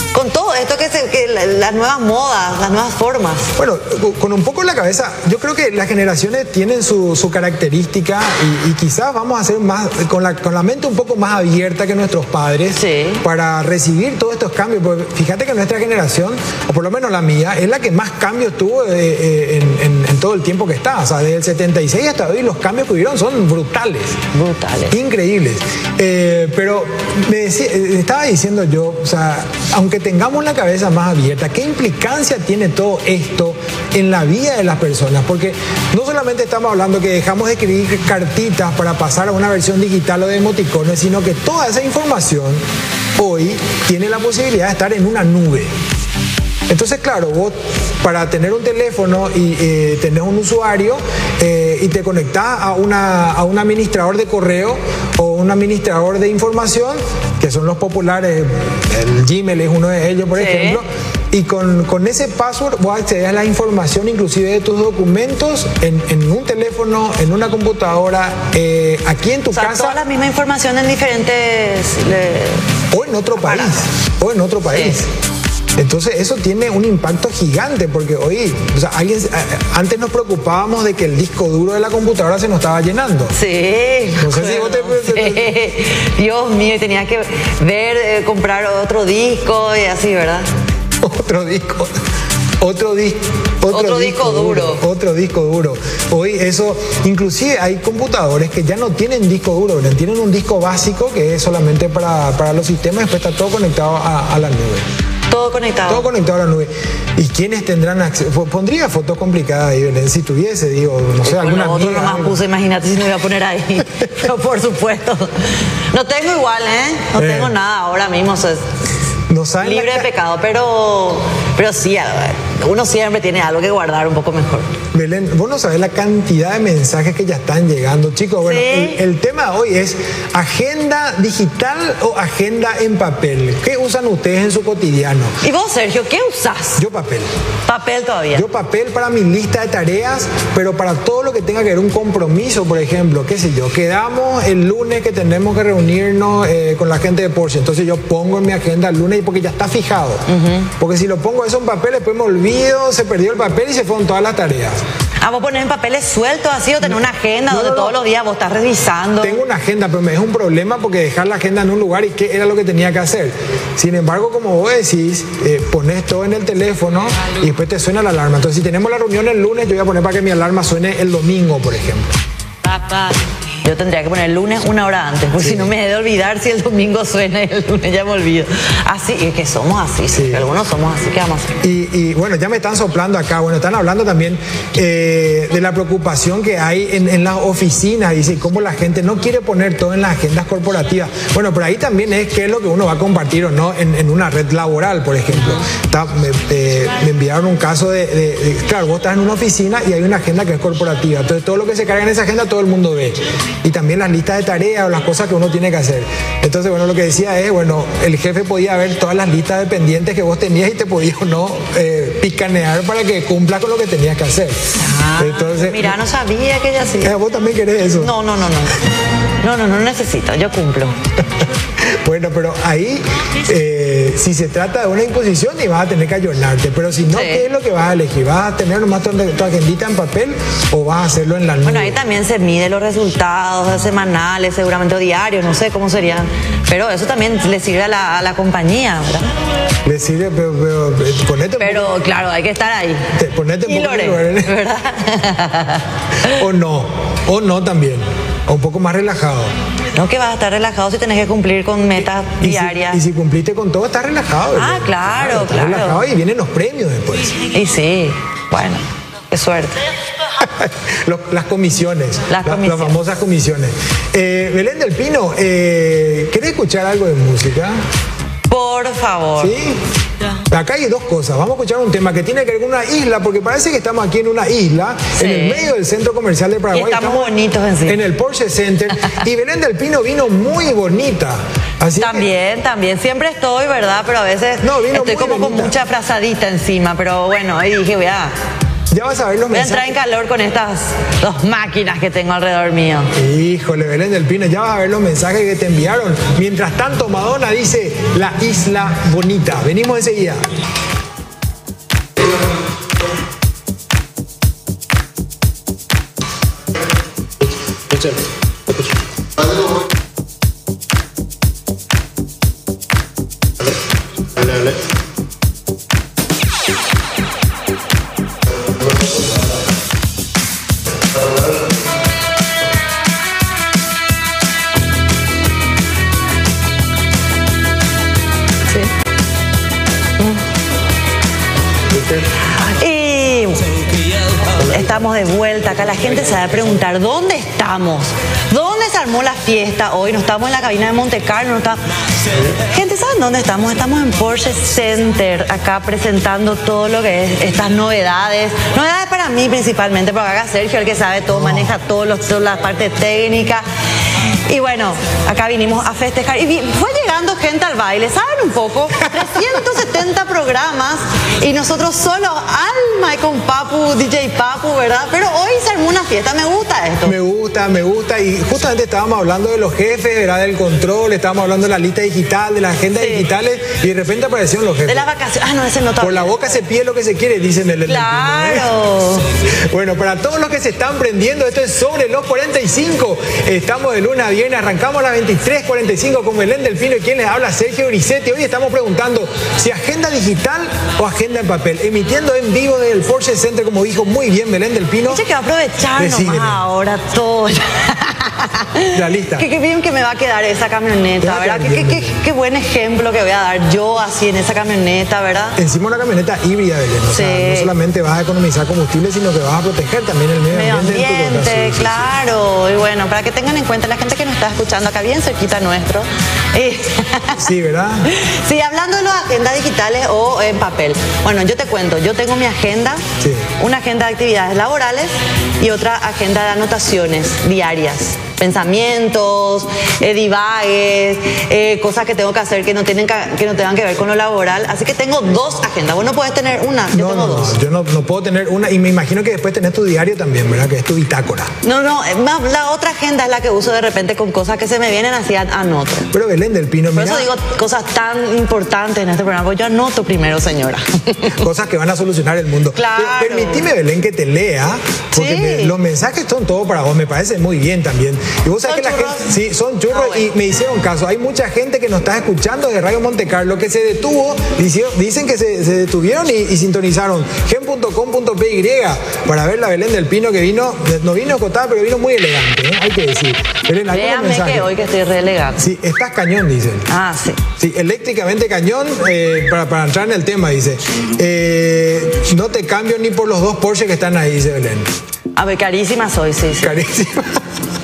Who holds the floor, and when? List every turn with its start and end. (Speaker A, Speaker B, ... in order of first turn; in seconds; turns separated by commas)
Speaker A: 0.1-3.5, Speaker B: 3.6-24.2, Speaker A: 12.7-13.2, Speaker A: 24.3-24.9, Speaker B: 24.9-42.6, Speaker B: 43.1-45.7, Speaker B: 46.7-70.0, Speaker A: 60.4-60.8, Speaker A: 69.5-72.6, Speaker B: 72.9-75.1, Speaker A: 73.3-73.8, Speaker B: 75.8-83.3, Speaker A: 83.3-90.5, Speaker B: 84.2-85.5, Speaker B: 91.0-92.0, Speaker B: 92.6-104.9, Speaker A: 93.7-94.8, Speaker A: 105.3-106.0, Speaker B: 105.9-112.4, Speaker A: 111.2-118.6, Speaker B: 117.1-117.5, Speaker B: 119.3-120.1, Speaker A: 119.6-124.7, Speaker B: 124.9-135.3, Speaker A: 128.4-129.0, Speaker A: 135.4-136.8, Speaker B: 136.8-137.3, Speaker A: 137.7-138.4, Speaker B: 138.3-154.8, Speaker A: 150.3-150.7, Speaker A: 155.2-159.4, Speaker B: 157.5-158.0, Speaker B: 159.2-172.2, Speaker A: 172.9-181.5, Speaker B: 175.4-175.7, Speaker B: 180.1-180.4, Speaker B: 181.6-216.0, Speaker A: 214.8-217.1, Speaker B: 217.0-218.1, Speaker A: 218.0-218.8, Speaker A: 219.4-220.9, Speaker B: 221.8-232.0, Speaker A: 227.1-227.4, Speaker A: 231.6-239.3, Speaker B: 239.8-241.9, Speaker A: 241.6-243.1, Speaker B: 243.2-244.6, Speaker A: 243.7-246.4, Speaker B: 246.3-249.5, Speaker A: 249.9-253.0, Speaker B: 252.4-257.5, Speaker A: 254.6-256.0, Speaker A: 257.4-259.8, Speaker B: 260.4-267.8, Speaker A: 262.3-262.9, Speaker A: 268.5-269.5, Speaker B: 269.4-269.8, Speaker B: 270.5-277.3, Speaker A: 275.1-275.6, Speaker A: 276.7-278.0, Speaker B: 277.8-282.3, Speaker A: 282.0-288.3, Speaker B: 284.6-285.8, Speaker B: 288.9-289.9, Speaker A: 289.5-293.1, Speaker B: 293.1-300.4, Speaker A: 332.4-333.6, Speaker A: 334.6-341.8, Speaker A: 342.5-353.6, Speaker B: 351.3-351.7, Speaker A: 354.5-367.1, Speaker B: 359.0-359.8, Speaker B: 367.0-375.1, Speaker A: 373.0-373.2, Speaker A: 374.9-376.4, Speaker B: 376.0-378.7, Speaker A: 377.9-379.3, Speaker B: 379.6-395.2, Speaker A: 395.1-405.6, Speaker B: 395.9-396.6, Speaker B: 398.9-399.5, Speaker B: 401.2-402.2, Speaker B: 405.6-412.1, Speaker A: 407.1-407.7, Speaker A: 410.5-417.5, Speaker B: 417.4-418.1, Speaker A: 418.1-423.0, Speaker B: 423.2-423.5, Speaker A: 423.6-437.5, Speaker B: 436.9-441.5, Speaker A: 441.6-446.1, Speaker B: 446.1-447.3, Speaker A: 446.9-451.4, Speaker B: 451.4-474.7, Speaker A: 452.7-453.6, Speaker A: 455.1-455.7, Speaker A: 458.6-459.2, Speaker A: 459.9-460.2, Speaker A: 473.9-475.6, Speaker B: 475.6-476.9, Speaker A: 476.9-477.4, Speaker B: 477.6-484.9, Speaker A: 485.3-486.7, Speaker B: 486.6-487.4